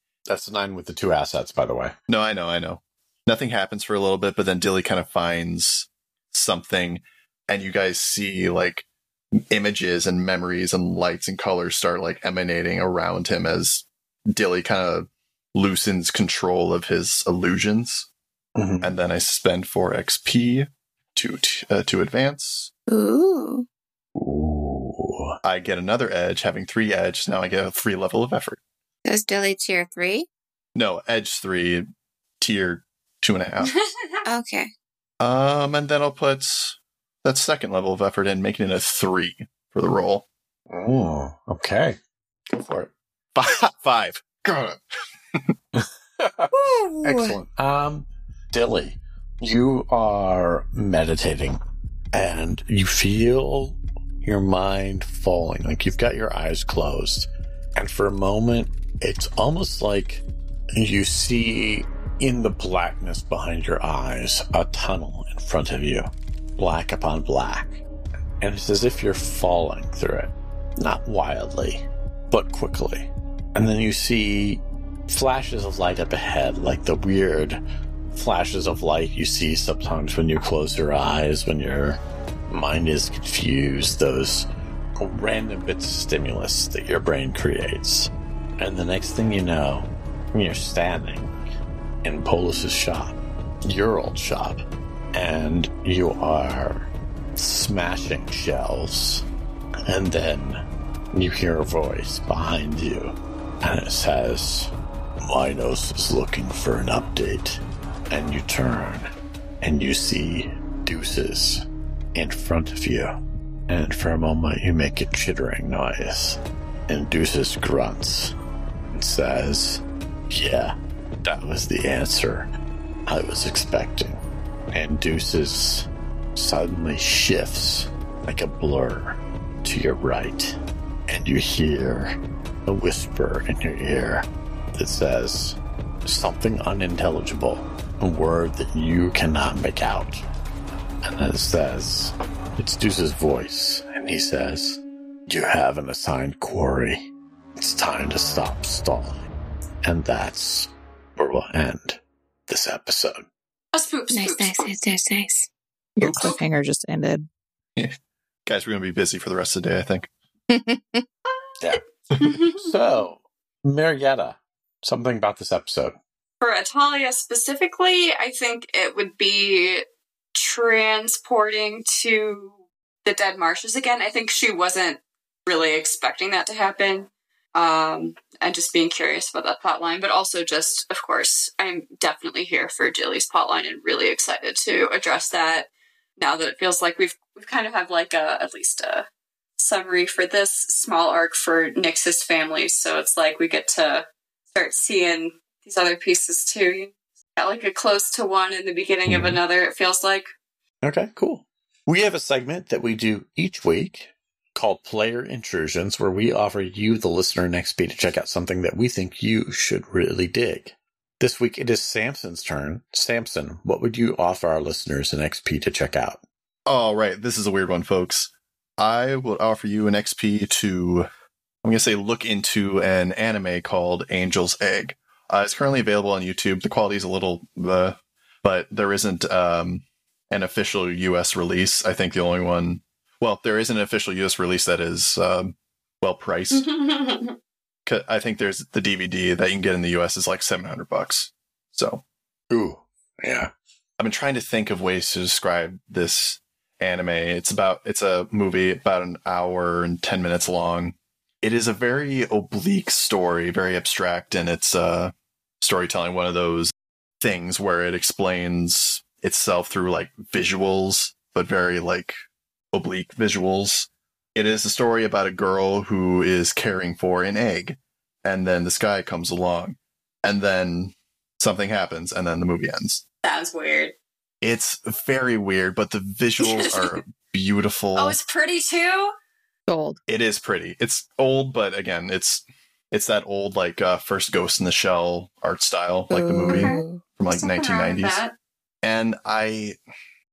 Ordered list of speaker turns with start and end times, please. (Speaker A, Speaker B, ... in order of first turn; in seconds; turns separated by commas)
Speaker A: 0.3-1.9, Speaker B: 2.1-8.9, Speaker B: 9.5-18.1, Speaker A: 18.6-18.9, Speaker B: 18.8-22.7, Speaker C: 22.9-23.7, Speaker A: 24.2-25.4, Speaker B: 25.4-28.6, Speaker C: 29.1-30.3, Speaker B: 30.8-31.9, Speaker B: 32.4-33.7, Speaker D: 33.7-34.2, Speaker C: 34.2-34.7, Speaker B: 35.2-40.3, Speaker A: 40.7-42.0, Speaker A: 42.5-42.9, Speaker B: 43.4-44.8, Speaker A: 45.8-46.5, Speaker E: 46.5-47.4, Speaker A: 47.0-51.6, Speaker A: 52.1-67.8, Speaker A: 68.4-77.6, Speaker A: 78.1-91.3, Speaker A: 92.0-99.2, Speaker A: 99.9-104.7, Speaker A: 105.2-109.1, Speaker A: 109.6-113.2, Speaker A: 113.7-118.3, Speaker A: 118.9-122.5, Speaker A: 123.1-140.2, Speaker A: 141.0-149.2, Speaker A: 149.8-153.3, Speaker D: 153.7-154.7, Speaker C: 154.1-155.5, Speaker E: 156.0-157.3, Speaker B: 156.1-156.3, Speaker B: 158.5-160.1, Speaker E: 160.5-161.0, Speaker D: 162.2-162.8, Speaker A: 162.6-166.0, Speaker D: 166.4-172.5, Speaker D: 173.1-189.1, Speaker D: 189.6-200.3, Speaker A: 200.8-216.2, Speaker B: 216.7-221.1, Speaker B: 221.6-236.7, Speaker D: 236.5-237.4, Speaker B: 237.9-242.0, Speaker A: 242.5-243.5, Speaker B: 244.0-262.1, Speaker B: 262.7-273.0, Speaker D: 273.2-273.9, Speaker B: 274.4-278.2, Speaker D: 276.4-277.0, Speaker D: 278.0-279.1, Speaker E: 279.7-280.0, Speaker B: 280.1-288.2, Speaker E: 286.1-287.0, Speaker D: 286.5-288.3, Speaker B: 288.8-289.8